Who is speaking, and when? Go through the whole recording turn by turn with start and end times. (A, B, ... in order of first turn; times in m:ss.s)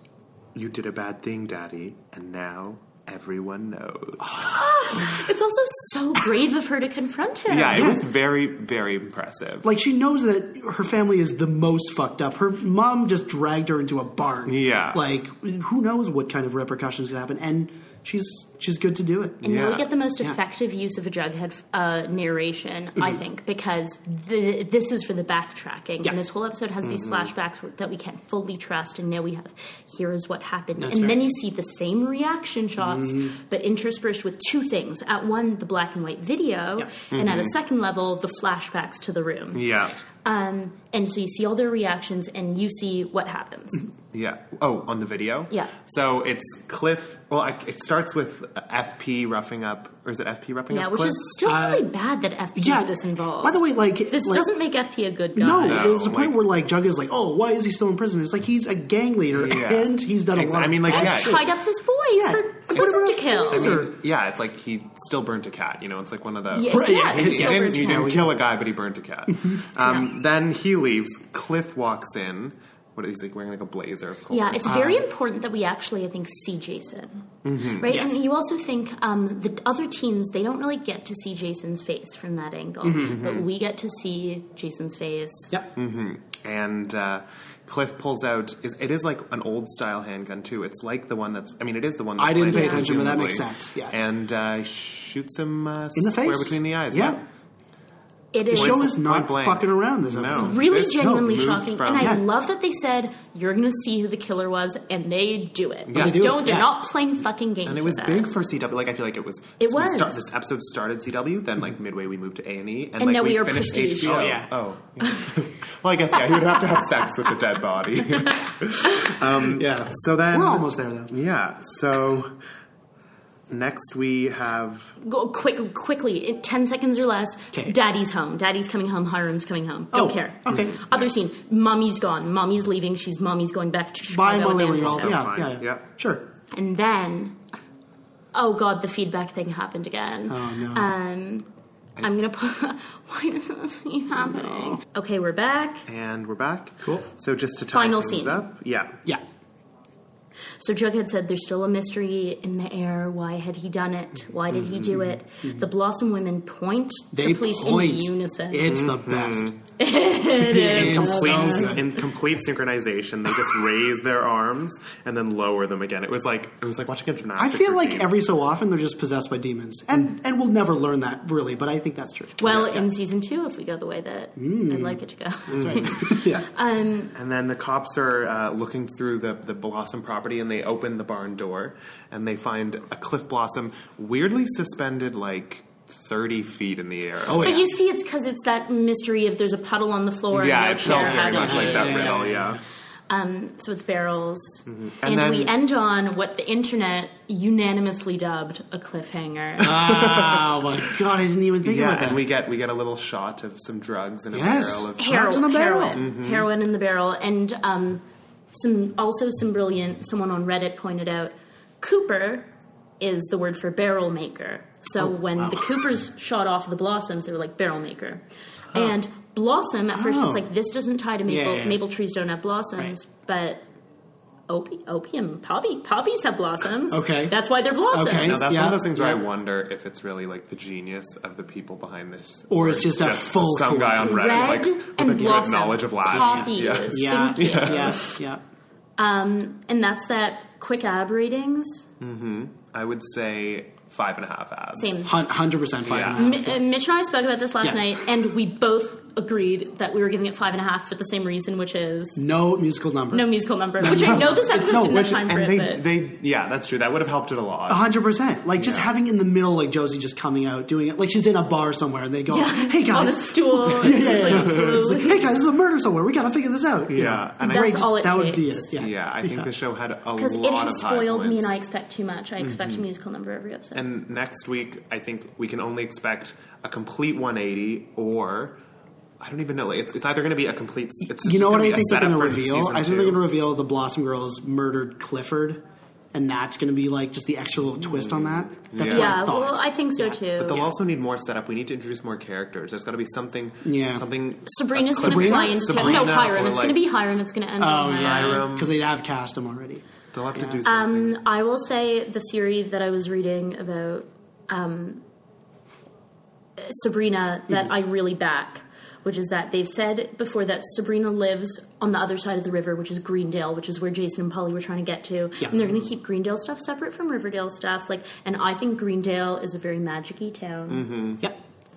0:00.5-0:04.4 A
0:04.3-0:07.9 B
0:07.5-0:09.7 A
0:07.7-0:08.0 C
0:09.6-0:19.4 C
0:14.4-0:15.0 A
0:19.4-0:39.7 B
0:19.4-0:19.9 A
0:26.8-0:27.3 A
0:30.8-0:31.2 C
0:32.8-0:33.3 C
0:37.1-0:37.5 A
0:39.5-0:40.0 A
0:40.2-0:43.9 B
0:44.1-0:51.2 A
0:50.7-0:55.9 B
0:51.4-0:51.9 C
0:52.6-0:54.5 C
0:55.3-1:01.5 C
0:55.6-0:56.4 A
0:59.4-1:01.5 A
1:00.9-1:03.8 B
1:02.1-1:03.9 C
1:02.8-1:14.9 A
1:06.5-1:08.1 B
1:06.7-1:08.4 C
1:14.3-1:25.5 B
1:14.6-1:15.0 C
1:17.4-1:17.8 A
1:17.8-1:18.2 C
1:23.0-1:23.5 A
1:25.8-1:37.2 A
1:32.2-1:34.0 C
1:32.5-1:32.9 B
1:35.9-1:37.2 C
1:38.3-1:38.9 B
1:38.5-1:41.4 C
1:38.5-1:42.2 A
1:40.3-1:48.4 B
1:42.0-1:42.2 C
1:45.9-1:46.5 A
1:45.9-1:46.7 C
1:47.6-2:02.3 A
1:49.6-1:50.2 B
1:53.0-1:54.4 B
1:54.0-1:54.5 C
1:55.0-1:55.4 B
1:59.4-2:01.2 C
2:03.5-2:04.9 A
2:05.0-2:15.2 B
2:09.9-2:10.7 C
2:10.5-2:11.1 A
2:14.1-2:16.2 C
2:14.7-2:15.8 A
2:16.5-2:17.4 B
2:18.3-2:21.5 B
2:20.3-2:20.9 C
2:22.0-2:25.8 B
2:25.9-2:29.0 A
2:27.7-2:28.4 B
2:30.6-2:38.7 B
2:37.1-2:39.5 C
2:38.6-2:39.6 A
2:39.8-2:41.9 B
2:40.4-2:42.0 C
2:40.6-2:48.1 A
2:47.4-2:52.8 C
2:52.4-2:57.1 B
2:54.4-2:56.4 C
2:55.5-2:55.9 A
2:57.1-3:07.7 A
3:07.2-3:07.6 C
3:07.3-3:12.3 B
3:10.3-3:12.6 A
3:10.8-3:12.6 C
3:13.1-3:20.0 B
3:14.7-3:15.5 A
3:19.6-3:22.2 C
3:19.8-3:20.6 A
3:21.6-3:26.5 A
3:24.3-3:26.0 C
3:25.0-3:32.5 B
3:33.0-3:43.6 B
3:35.0-3:35.8 C
3:39.9-3:40.4 C
3:41.2-3:41.8 C
3:44.5-3:48.4 B
3:46.9-3:47.4 C
3:47.9-3:49.2 C
3:48.2-3:58.1 A
3:52.5-3:54.6 C
3:54.0-3:58.1 B
3:56.1-3:58.4 C
3:59.0-4:01.9 B
4:02.0-4:05.0 A
4:04.7-4:05.2 B
4:05.0-4:06.6 C
4:05.8-4:06.3 A
4:06.1-4:12.2 B
4:07.6-4:07.9 C
4:12.2-4:15.2 C
4:13.1-4:15.8 B
4:14.7-4:17.9 A
4:17.7-4:29.5 C
4:18.6-4:18.9 A
4:22.3-4:25.2 B
4:23.9-4:24.8 A
4:26.9-4:27.7 A
4:27.4-4:28.7 B
4:28.8-4:31.5 A
4:30.2-4:33.8 B
4:33.7-4:38.6 A
4:39.2-4:43.2 A
4:41.2-4:45.6 C
4:46.1-4:50.2 C
4:47.9-4:49.3 A
4:48.8-4:50.7 B
4:50.3-4:56.9 A
4:53.6-4:54.0 C
4:54.4-4:58.5 B
4:55.0-4:56.5 C
4:57.6-5:00.6 C
4:57.8-4:58.8 A
5:00.1-5:01.2 A
5:00.6-5:05.0 B
5:06.6-5:20.9 B
5:20.7-5:21.2 A